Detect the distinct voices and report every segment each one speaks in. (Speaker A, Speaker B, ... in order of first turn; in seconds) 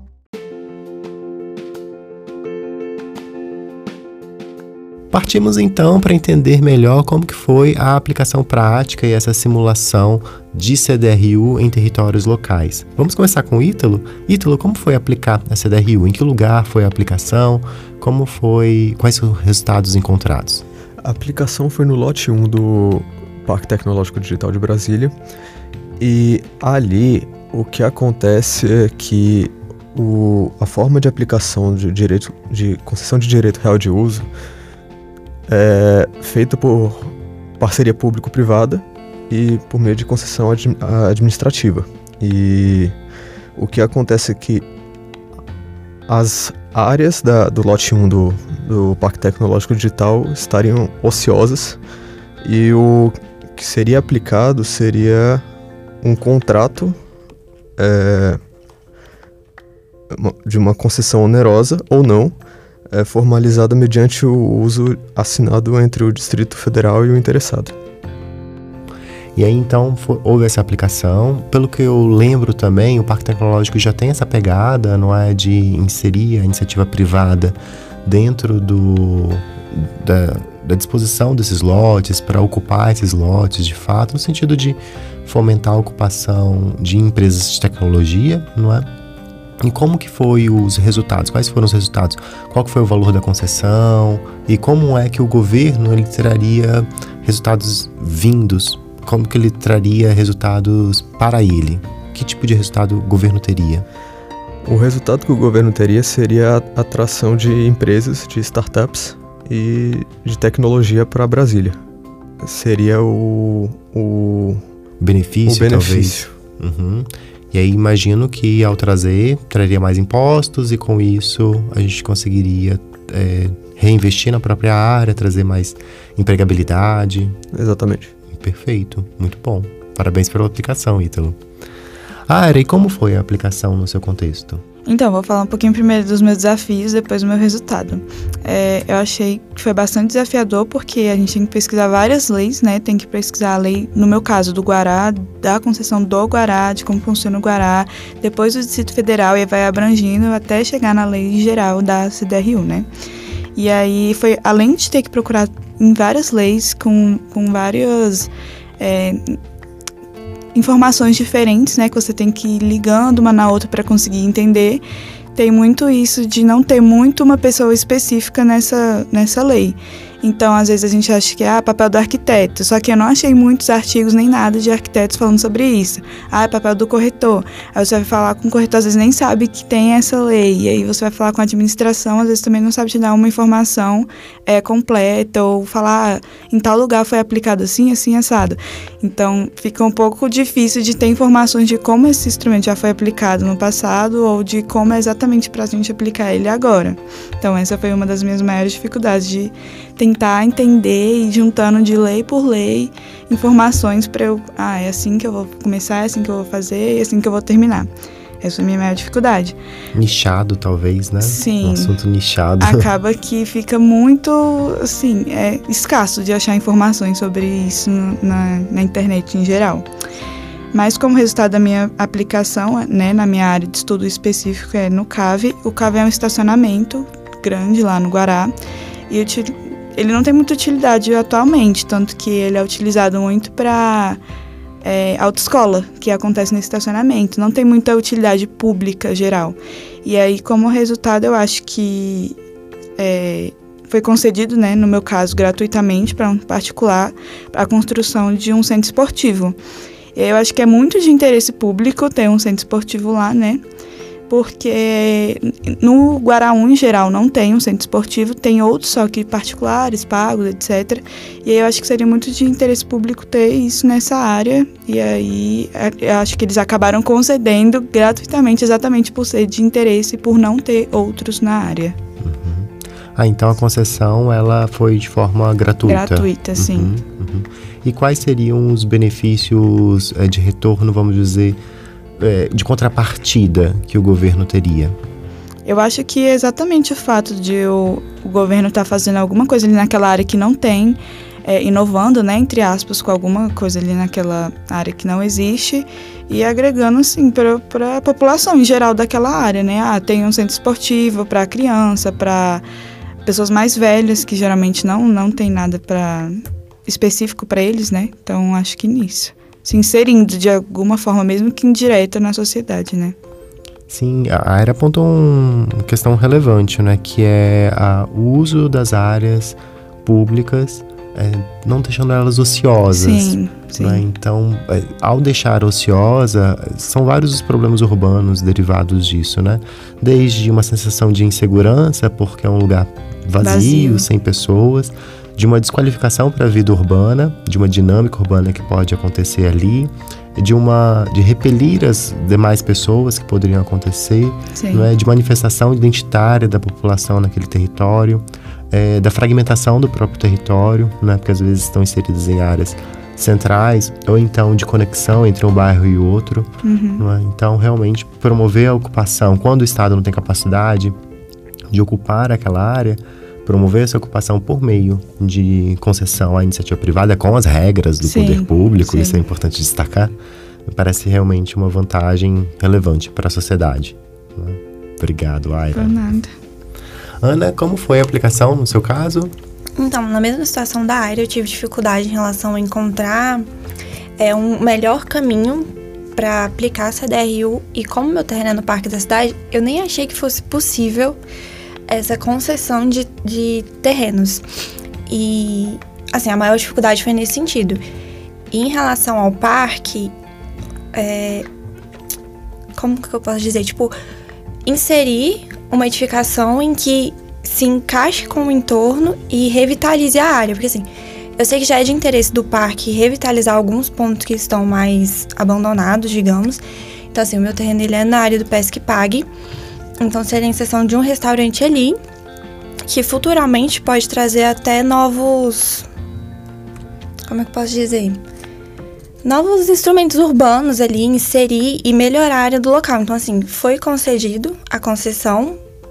Speaker A: 5.1-20.6, 69.3-88.8, 89.6-103.9, 115.0-127.3, 128.3-131.4, 132.3-134.6, 209.9-212.9, 272.2-281.6, 282.2-284.9, 313.9-360.9, 361.7-370.1, 370.7-375.9, 377.2-379.3
Speaker B: 21.0-25.1, 26.0-34.3, 35.5-43.0, 43.6-44.6, 46.1-51.8, 52.4-55.4, 56.0-57.0, 57.8-58.4, 60.1-62.4, 62.9-67.7, 104.6-111.8, 112.4-114.6, 115.5-116.3, 127.5-128.1
Speaker C: 134.9-152.9, 153.6-159.4, 160.6-164.8, 165.3-207.9, 208.4-209.6, 211.2-211.9, 212.6-219.9, 220.7-228.5, 229.1-234.2, 234.8-242.3, 243.0-249.6, 250.2-253.6, 254.3-272.0, 275.9-276.9, 285.7-302.6, 303.2-313.1, 322.9-324.0, 333.4-334.1, 344.6-344.9, 356.6-357.1, 368.0-369.2, 375.7-376.3
Speaker D: 379.8-383.5, 384.2-391.2, 391.9-394.4, 395.1-397.8, 398.5-400.1, 400.9-401.5, 402.8-403.9, 404.7-419.3, 420.0-422.0, 422.9-425.9, 427.2-428.2, 429.2-435.6